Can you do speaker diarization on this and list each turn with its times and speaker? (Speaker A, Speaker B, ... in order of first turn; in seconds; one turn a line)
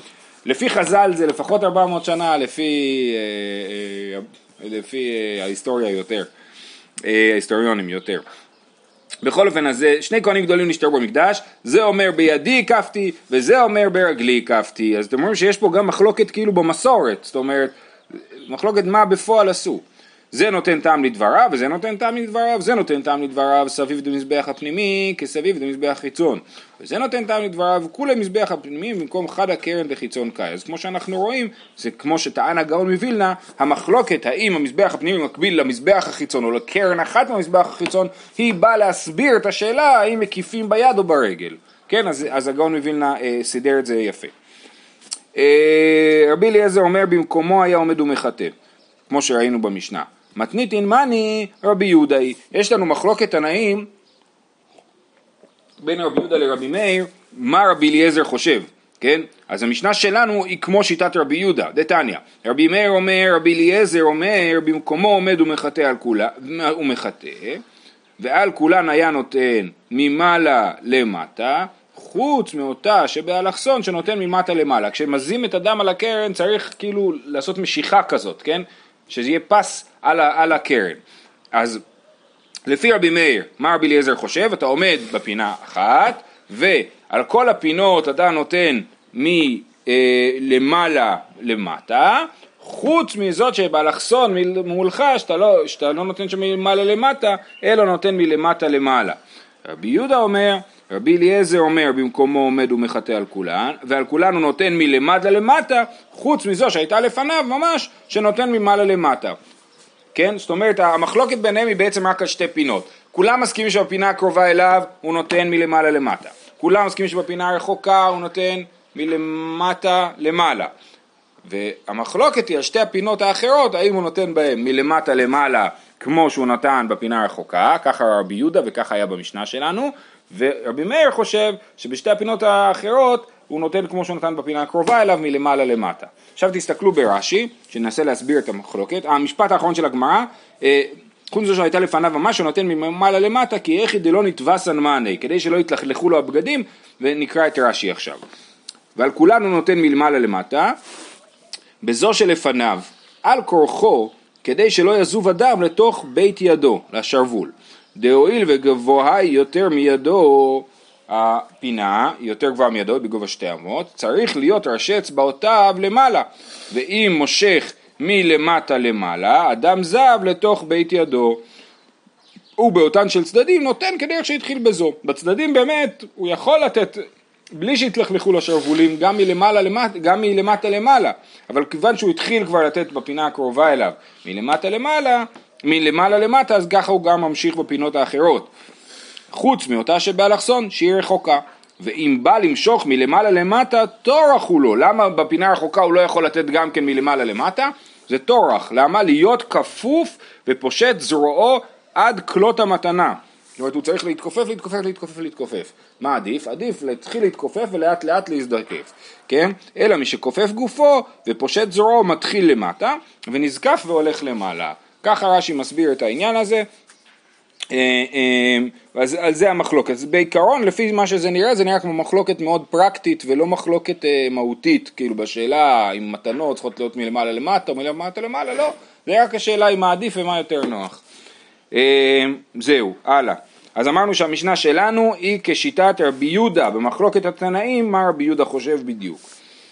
Speaker A: 0.4-6.3
Speaker A: 7.0-8.2
Speaker A: 9.2-17.8
Speaker A: 18.4-44.3
Speaker A: 45.3-48.5
Speaker A: 49.1-53.9
Speaker A: 55.8-67.6
Speaker A: 68.2-81.0
Speaker A: 81.5-81.8
Speaker A: 82.7-109.4
Speaker A: 110.1-120.7
Speaker A: 121.4-148.2
Speaker A: 148.9-150.8
Speaker A: 151.8-171.4
Speaker A: 172.6-188.5
Speaker A: 189.3-216.7
Speaker A: 217.7-231.0
Speaker A: 231.7-239.2